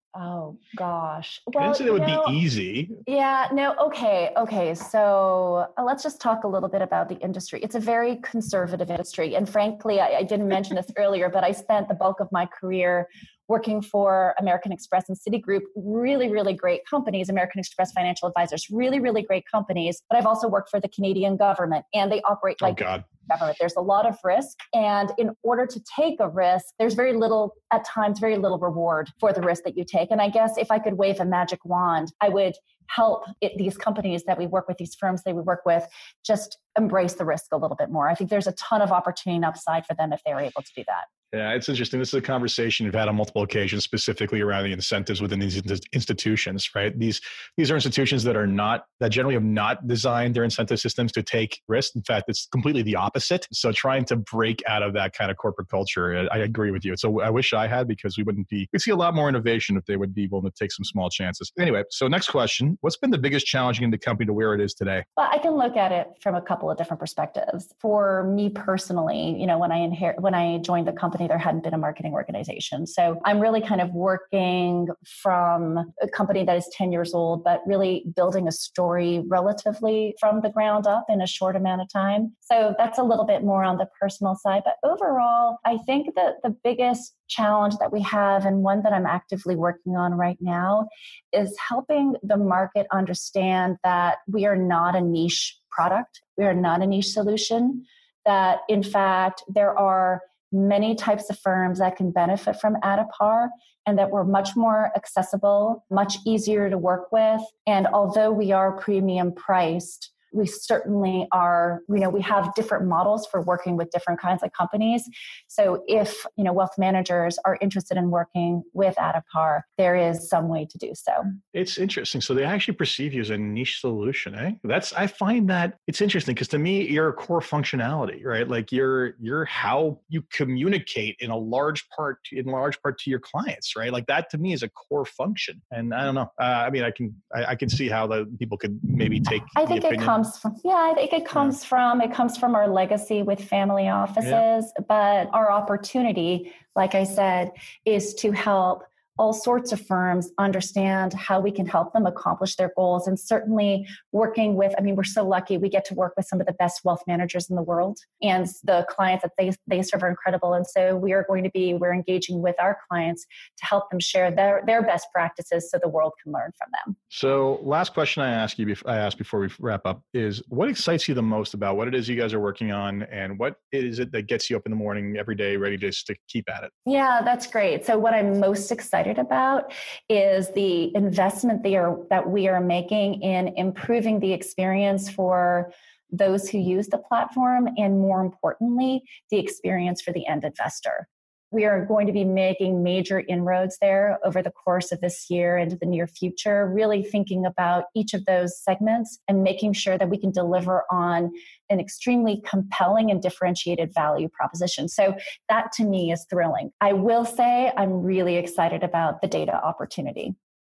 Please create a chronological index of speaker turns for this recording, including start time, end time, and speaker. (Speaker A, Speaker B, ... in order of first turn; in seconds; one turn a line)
Speaker A: 0.1-2.4
Speaker B: 1.6-3.0
Speaker A: 3.1-41.1
Speaker B: 22.6-23.1
Speaker B: 41.3-65.0
Speaker A: 65.2-121.3
Speaker B: 121.5-140.2
Speaker A: 139.6-167.0
Speaker B: 167.1-176.7
Speaker A: 176.9-210.3